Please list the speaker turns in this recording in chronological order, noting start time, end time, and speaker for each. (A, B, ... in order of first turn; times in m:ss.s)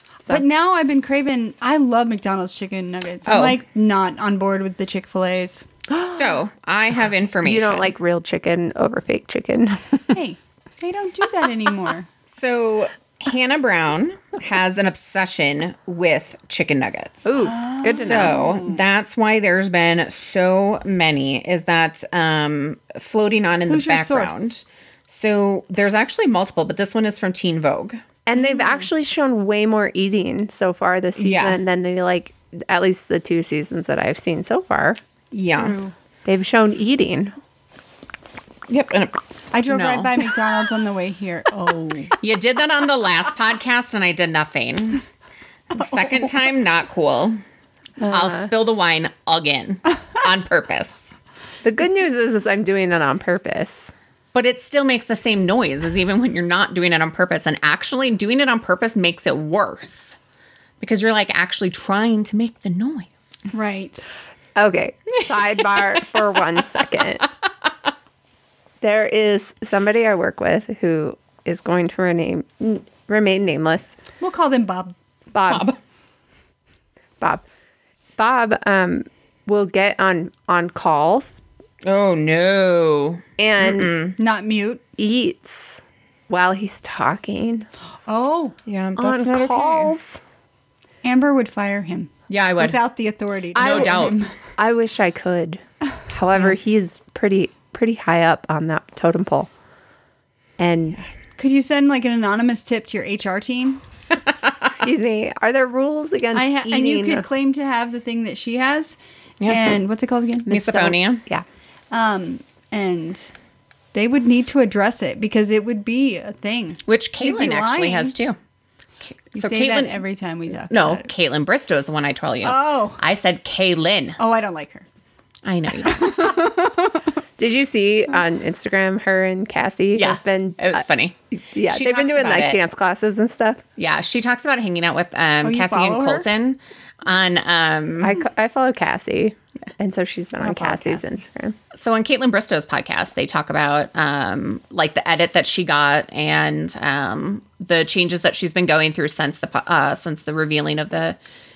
0:00.3-0:05.7 A
0:03.3-0:03.6 B
0:05.9-0:06.4 C
0:06.0-0:07.9 B
0:07.4-0:10.2 C
0:10.1-0:12.1 A
0:12.3-0:17.3 B
0:17.2-0:18.6 C
0:17.4-0:18.8 A
0:17.8-0:28.0 B
0:23.7-0:24.5 A
0:28.3-0:35.0 C
0:31.2-0:31.6 B
0:35.3-0:35.8 B
0:35.6-0:35.9 A
0:36.2-0:37.3 C
0:38.7-0:40.2 B
0:39.5-0:42.1 A
0:42.2-0:45.0 B
0:45.7-0:47.4 B
0:48.0-0:48.5 C
0:48.0-0:51.0 B
0:51.6-0:53.9 C
0:54.3-1:00.2 B
1:00.8-1:03.4 B
1:03.5-1:04.1 A
1:04.6-1:07.2 C
1:08.8-1:14.0 C
1:14.2-1:15.0 A
1:15.3-1:15.7 C
1:15.5-1:15.8 B
1:18.2-1:21.4 C
1:21.8-1:24.2 B
1:23.4-1:23.9 C
1:24.2-1:24.8 A
1:25.0-1:27.7 C
1:28.1-1:28.6 A
1:28.7-1:30.0 B
1:29.0-1:30.2 C
1:31.0-1:34.3 A
1:32.3-1:32.8 B
1:33.6-1:34.2 B
1:33.6-1:39.5 C
1:40.6-1:41.0 C
1:41.4-1:43.8 A
1:44.6-1:47.2 C
1:46.3-1:50.5 A
1:49.4-1:49.8 B
1:50.5-1:51.4 C
1:50.5-1:51.2 B
1:51.9-1:53.3 A
1:53.9-1:58.1 A
1:56.9-1:58.4 B
1:59.3-2:00.0 B
1:59.3-2:01.1 A
2:00.7-2:04.2 B
2:02.4-2:03.0 A
2:04.2-2:04.9 A
2:05.4-2:06.4 B
2:05.8-2:07.1 A
2:07.4-2:10.8 C
2:10.0-2:12.6 B
2:11.5-2:13.6 C
2:13.8-2:18.2 B
2:15.4-2:16.3 A
2:18.0-2:21.6 C
2:20.4-2:21.1 A
2:21.7-2:31.2 B